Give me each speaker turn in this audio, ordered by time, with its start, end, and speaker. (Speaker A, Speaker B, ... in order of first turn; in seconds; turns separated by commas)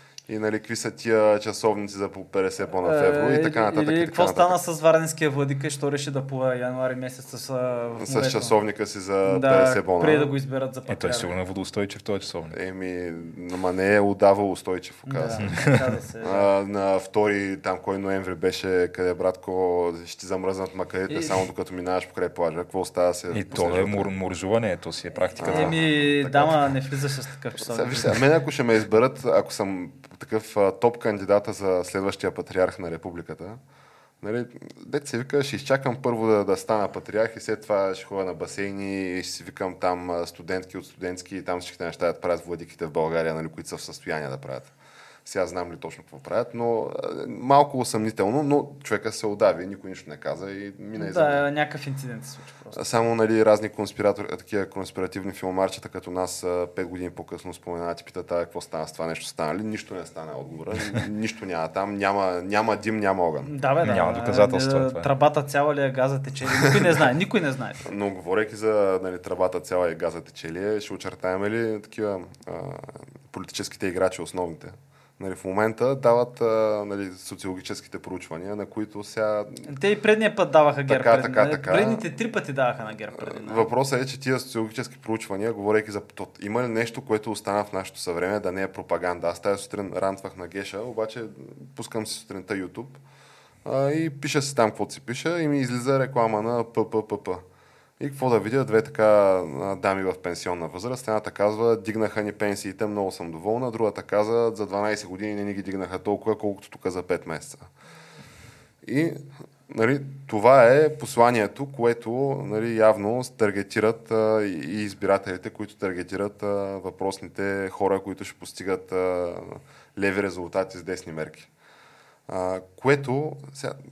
Speaker A: 0.3-4.6, Speaker B: 2.8-8.6, Speaker A: 8.0-10.3, Speaker B: 9.2-11.3, Speaker C: 10.9-12.6, Speaker A: 12.5-15.5, Speaker B: 15.1-16.5, Speaker C: 15.4-15.8, Speaker A: 16.2-24.1, Speaker B: 21.1-21.4, Speaker C: 23.3-25.8, Speaker A: 25.4-26.6, Speaker B: 25.4-28.2, Speaker A: 27.6-33.6, Speaker A: 34.2-44.7, Speaker A: 45.2-51.4, Speaker B: 51.0-52.8, Speaker A: 52.7-63.5, Speaker B: 63.4-67.8, Speaker C: 63.8-65.1, Speaker A: 67.8-79.7, Speaker B: 79.7-83.7, Speaker A: 80.9-82.0, Speaker A: 83.1-93.0, Speaker A: 93.6-97.4, Speaker A: 98.0-107.7, Speaker A: 108.8-121.5, Speaker A: 122.3-123.8